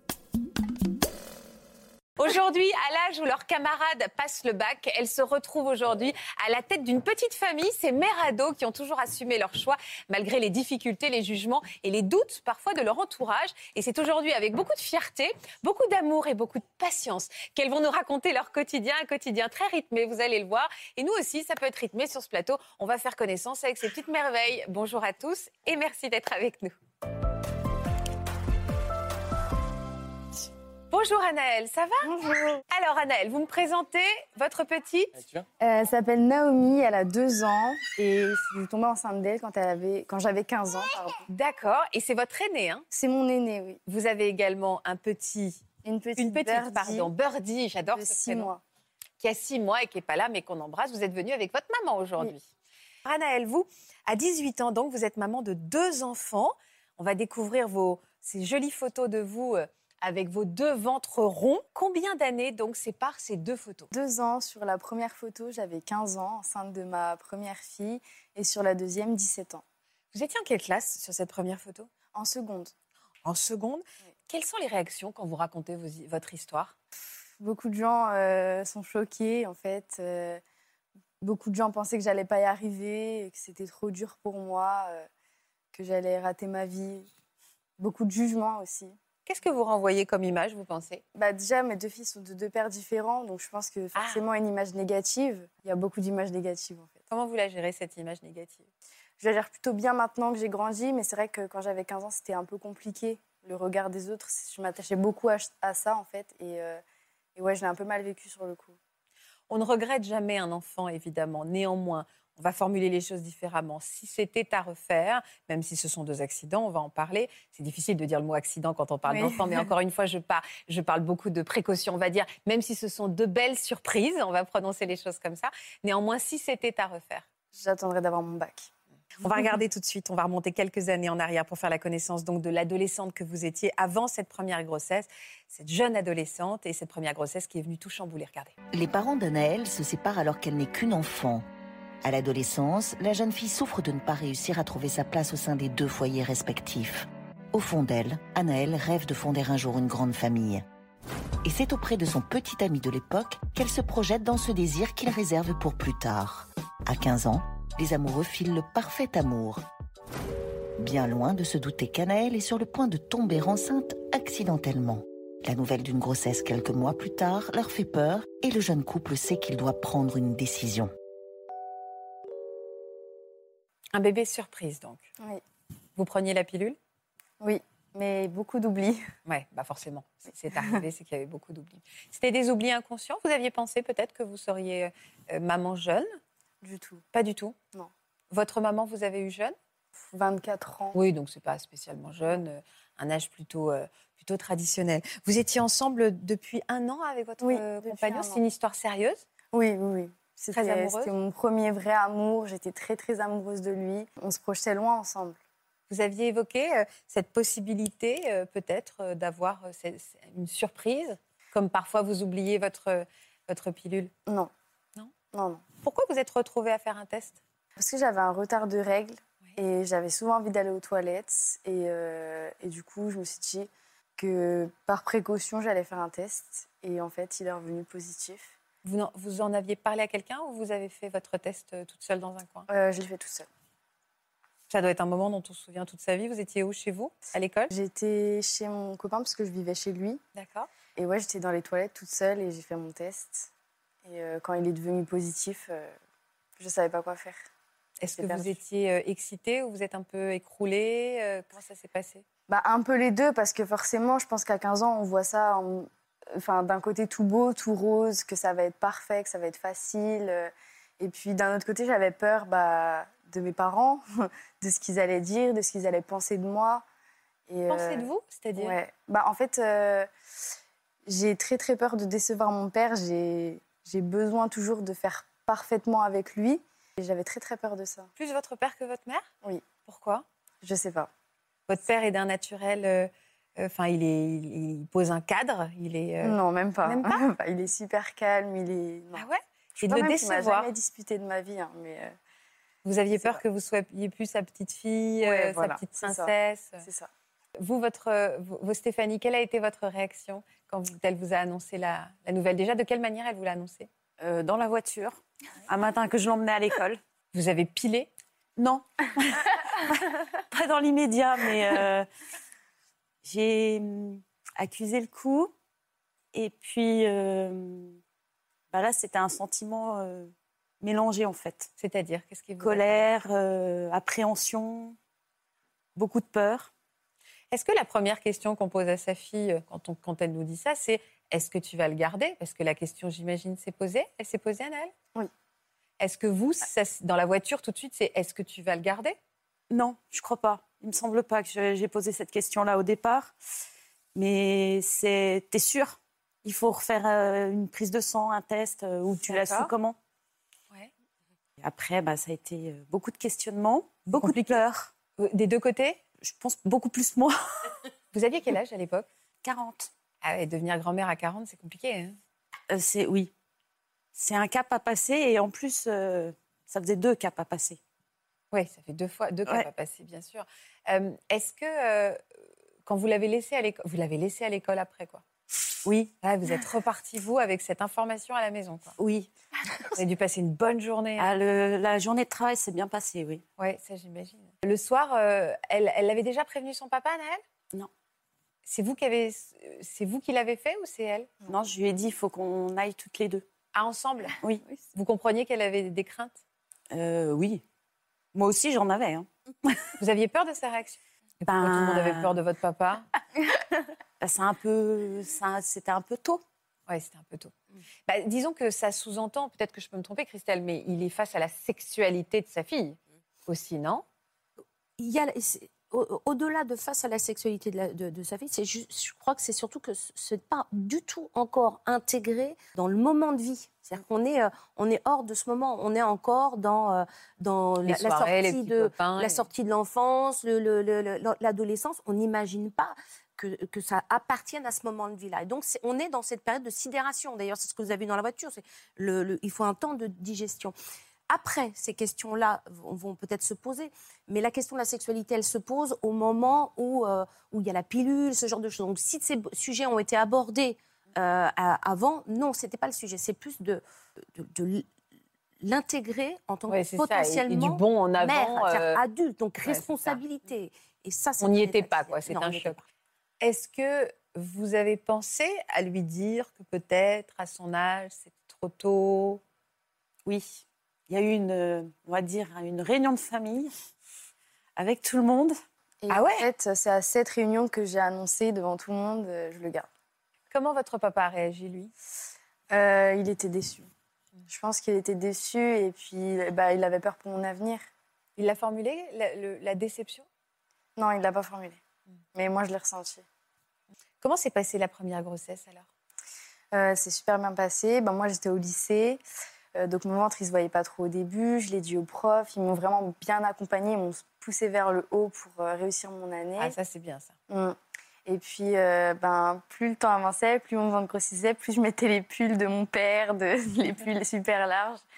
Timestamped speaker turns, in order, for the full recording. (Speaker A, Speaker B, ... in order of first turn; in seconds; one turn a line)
Speaker A: 2.2-26.7
Speaker A: 30.9-32.1
Speaker B: 32.1-32.5
Speaker A: 32.7-35.1
Speaker B: 35.6-41.2
Speaker A: 41.3-42.8
Speaker B: 42.9-43.8
Speaker A: 43.9-45.6
Speaker B: 45.8-47.1
Speaker A: 46.2-48.5
Speaker B: 47.9-48.6
Speaker A: 49.2-52.5
Speaker A: 53.0-63.9
Speaker B: 63.9-69.6
Speaker A: 70.1-71.9
Speaker B: 72.1-72.7
Speaker A: 73.2-76.7
Speaker B: 77.4-80.4
Speaker B: 81.2-85.1
Speaker B: 85.7-87.1
Speaker B: 87.8-88.9
Speaker A: 89.2-91.0
Speaker B: 91.1-97.0
Speaker A: 93.9-94.2
Speaker A: 97.1-98.7
Speaker B: 99.2-106.8
Speaker B: 107.4-108.8
Speaker A: 109.5-127.2
Speaker B: 119.1-119.6
Speaker B: 127.5-128.7
Speaker A: 129.2-138.5
Speaker C: 138.7-141.4
Speaker C: 142.0-150.7
Speaker C: 151.4-159.7
Speaker C: 160.8-170.9
Speaker A: 173.9-175.0
Speaker A: 176.0-176.8
Speaker B: 177.4-179.0
Speaker A: 179.2-186.1
Speaker B: 186.6-187.0
Speaker A: 187.1-187.5
Speaker A: 188.3-189.5
Speaker B: 190.1-191.0
Speaker A: 190.9-199.2
Speaker B: 197.4-198.4
Speaker B: 199.5-205.4
Speaker A: 200.5-201.1
Speaker A: 205.9-214.1
Speaker B: 215.3-215.6
Speaker A: 215.8-217.4
Speaker B: 217.8-228.5
Speaker A: 228.8-232.7
Speaker B: 232.7-233.5
Speaker A: 234.7-237.7
Speaker B: 237.7-240.2
Speaker A: 240.3-240.7
Speaker B: 240.9-243.5
Speaker B: 244.0-245.9
Speaker B: 246.6-247.4
Speaker A: 248.0-252.2
Speaker B: 248.1-248.6
Speaker B: 252.5-266.8
Speaker B: 267.5-270.1
Speaker A: 267.7-268.8
Speaker B: 271.1-278.1
Speaker A: 278.2-279.3
Speaker A: 279.9-280.2
Speaker B: 280.6-281.1
Speaker A: 281.7-287.3
Speaker B: 286.2-289.2
Speaker A: 289.1-290.7
Speaker B: 289.8-292.1
Speaker A: 292.9-296.8
Speaker B: 293.1-293.4
Speaker B: 295.2-297.1
Speaker A: 297.6-303.9
Speaker D: 304.2-307.0
Speaker A: 307.3-308.1
Speaker D: 308.6-312.1
Speaker D: 313.2-315.5
Speaker D: 316.3-318.0
Speaker D: 318.7-321.7
Speaker A: 321.8-323.1
Speaker D: 322.6-325.0
Speaker D: 326.0-326.7
Speaker A: 327.5-334.9
Speaker A: 336.0-339.2
Speaker D: 339.7-343.3
Speaker D: 344.1-350.0
Speaker A: 349.3-349.7
Speaker D: 351.6-354.9
Speaker A: 354.2-354.6
Speaker A: 355.2-356.0
Speaker D: 356.2-357.4
Speaker A: 358.1-359.1
Speaker D: 359.4-359.9
Speaker A: 360.2-362.2
Speaker D: 362.7-363.3
Speaker D: 364.1-367.8
Speaker A: 368.5-372.2
Speaker A: 372.9-375.2
Speaker D: 375.8-376.1
Speaker A: 376.2-378.9
Speaker D: 379.0-379.3
Speaker A: 380.0-381.3
Speaker D: 381.2-383.4
Speaker A: 383.6-387.4
Speaker A: 388.6-391.3
Speaker D: 391.5-393.5
Speaker A: 393.7-394.4
Speaker A: 394.9-396.4
Speaker D: 396.9-397.6
Speaker D: 398.3-399.9
Speaker A: 400.0-403.1
Speaker D: 401.5-402.4
Speaker D: 404.2-406.4
Speaker A: 406.9-407.5
Speaker A: 408.1-414.0
Speaker E: 415.0-440.8
Speaker A: 427.9-429.5
Speaker E: 441.3-453.8
Speaker E: 454.4-454.9
Speaker E: 455.6-462.8
Speaker A: 456.7-459.0
Speaker A: 459.6-460.2
Speaker A: 461.4-462.8
Speaker A: 463.4-469.4
Speaker D: 470.3-473.7
Speaker D: 474.8-475.6
Speaker B: 476.0-479.9
Speaker A: 476.1-476.5
Speaker A: 480.5-481.9
Speaker B: 482.7-483.9
Speaker B: 484.5-487.8
Speaker A: 488.4-490.3
Speaker B: 491.0-491.8
Speaker B: 492.4-493.2
Speaker A: 494.2-495.9
Speaker B: 496.7-499.2
Speaker B: 499.8-506.8
Speaker A: 506.6-507.3
Speaker B: 507.5-515.0